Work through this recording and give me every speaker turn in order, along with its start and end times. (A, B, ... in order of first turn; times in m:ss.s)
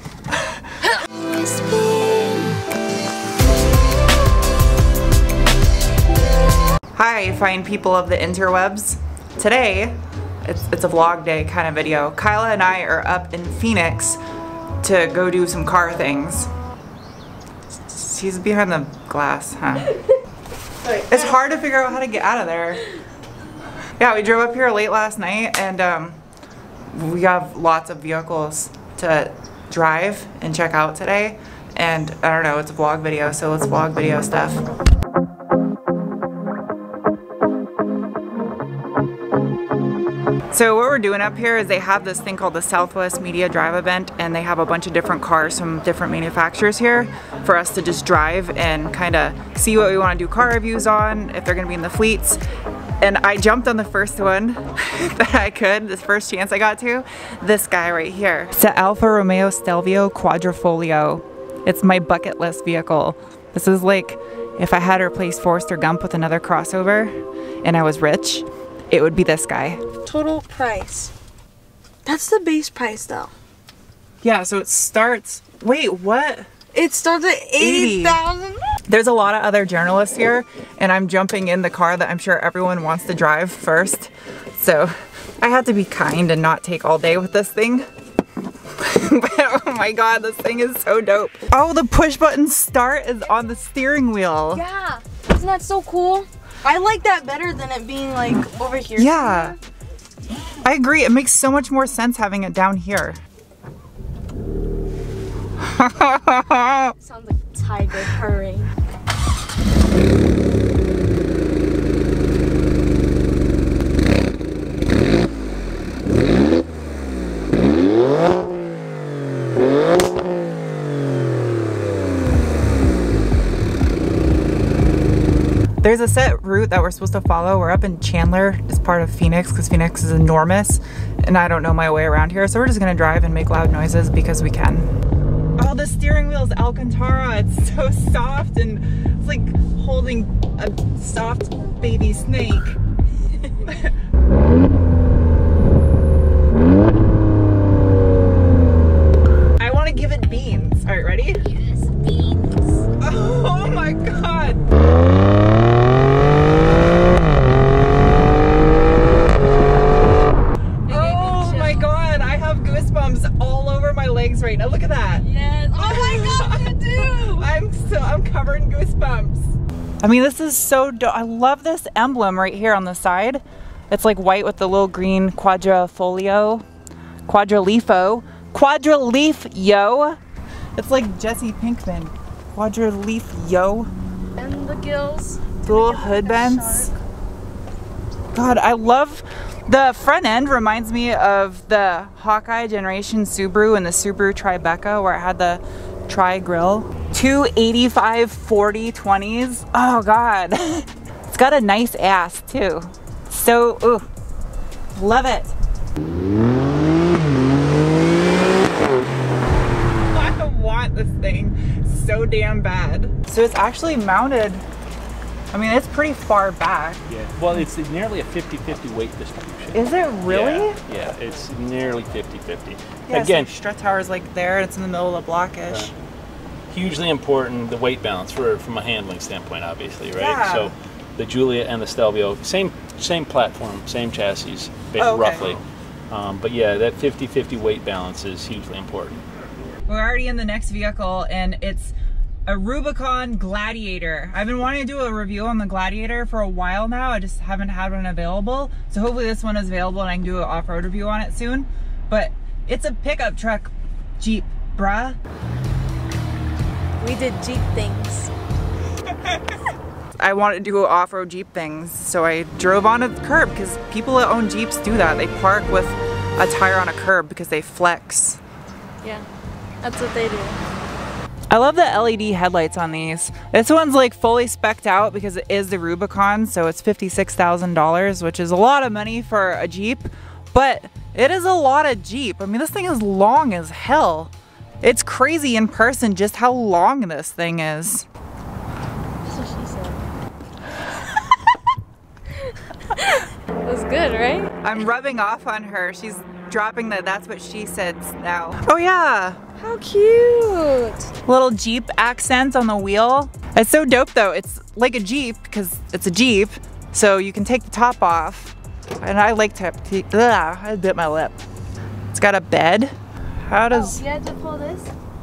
0:00.3-0:00.6 A
0:07.0-0:14.2 A
0:14.8-0:16.5 A
0:17.9-0:20.0 A
0:20.9-0:22.9 A
0:24.0-0:26.2 A
0:26.9-0:34.6 A
0:40.5-0:52.4 A
0:53.0-1:09.8 A
1:10.0-1:11.1 B
1:12.0-1:13.3 B
1:14.2-1:16.5 A
1:16.7-1:18.7 B
1:17.6-1:18.2 A
1:18.9-1:27.9 A
1:28.8-1:34.6 A
1:34.5-1:39.6 B
1:39.0-1:39.6 A
1:40.6-1:43.2 A
1:45.6-1:47.0 A
1:47.0-1:48.7 B
2:05.8-2:14.9 A
2:15.6-2:22.8 A
2:23.6-2:23.9 A
2:29.6-2:31.4 A
2:31.6-2:32.7 B
2:33.0-2:34.6 A
2:40.9-2:42.0 B
2:40.9-2:56.6 A
2:45.2-2:47.4 B
2:57.3-3:00.2 A
3:00.8-3:03.9 A
3:04.4-3:06.9 B
3:05.6-3:06.9 A
3:08.3-3:24.1 A
3:25.0-3:25.5 A
3:30.1-3:34.6 A
3:35.5-3:37.0 A
3:37.1-3:43.5 C
3:39.7-3:40.8 A
3:43.1-3:45.9 A
3:46.7-3:59.2 C
3:50.2-3:50.8 A
3:55.0-3:55.5 A
3:59.9-4:01.9 A
4:02.5-4:15.2 A
4:17.0-4:18.3 B
4:20.2-4:28.4 A
4:29.0-4:29.3 B
4:29.8-4:30.6 B
4:31.5-4:48.1 A
4:49.3-4:50.0 B
4:52.3-4:54.6 B
4:54.6-4:59.4 A
4:59.6-5:01.0 B
5:01.3-5:11.4 A
5:12.1-5:13.0 A
5:13.5-5:14.0 A
5:13.7-5:14.9 B